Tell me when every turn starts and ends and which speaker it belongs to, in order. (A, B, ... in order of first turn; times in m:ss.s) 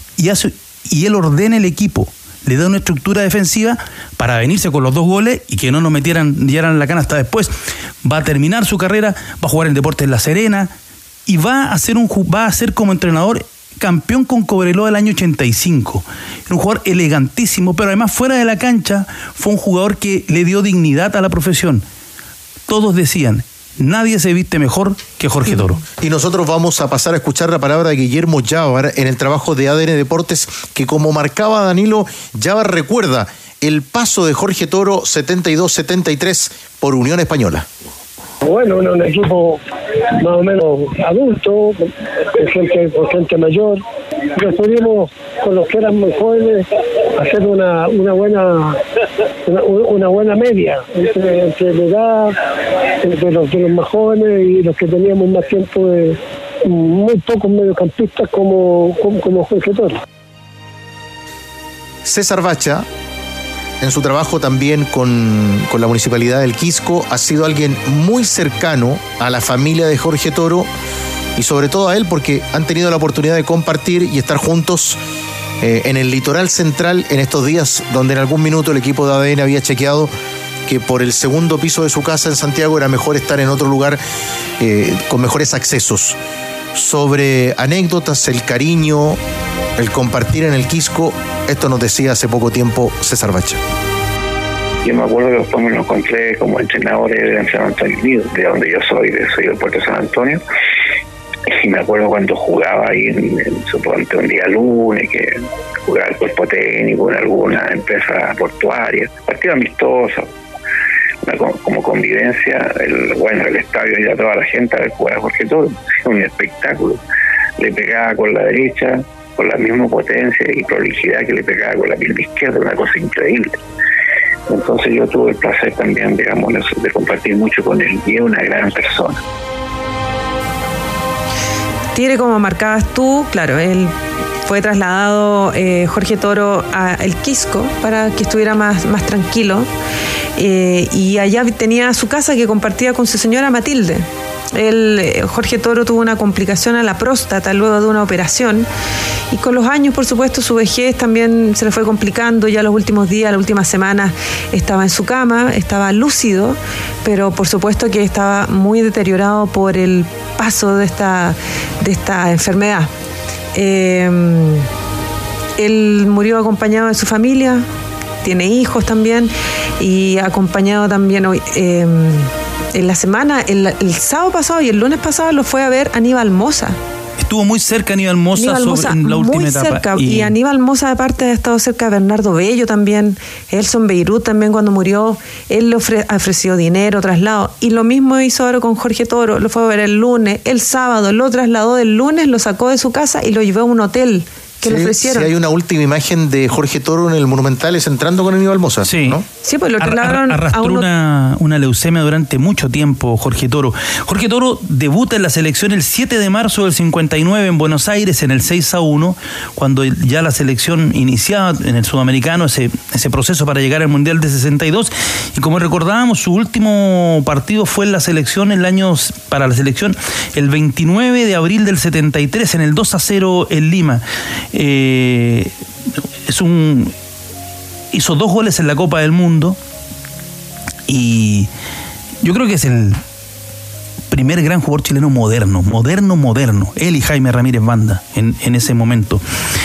0:00.2-0:10.7 A
0:11.3-0:21.8 A
0:22.7-0:25.8 A
0:26.0-0:37.7 B
0:38.4-0:39.6 C
0:40.2-0:43.8 C
0:44.4-0:48.8 C
0:49.5-0:52.4 C
0:53.0-1:00.0 C
1:02.0-1:02.9 B
1:03.8-1:10.7 B
1:11.4-1:15.0 B
1:15.6-1:20.1 B
1:20.7-1:24.0 B
1:24.6-1:26.2 B
1:26.7-1:29.2 B
1:29.8-1:33.6 B
1:34.8-1:40.4 D
1:41.6-1:45.3 D
1:45.9-1:50.3 D
1:51.2-1:57.0 D
1:57.6-2:03.6 D
2:04.5-2:09.2 D
2:12.0-2:13.9 E
2:14.4-2:19.7 E
2:20.4-2:28.7 E
2:29.3-2:42.9 E
2:43.6-2:44.7 E
2:45.6-2:47.6 E
2:48.2-2:56.8 E
2:57.2-3:00.3 A
2:58.4-3:15.3 E
3:14.6-3:19.2 B
3:18.9-3:19.2 A
3:19.4-3:20.9 E
3:19.8-3:45.6 A
3:46.3-3:46.9 A
3:47.9-3:49.6 A
3:50.9-3:51.5 A
3:52.2-3:53.0 A
3:54.1-3:59.2 A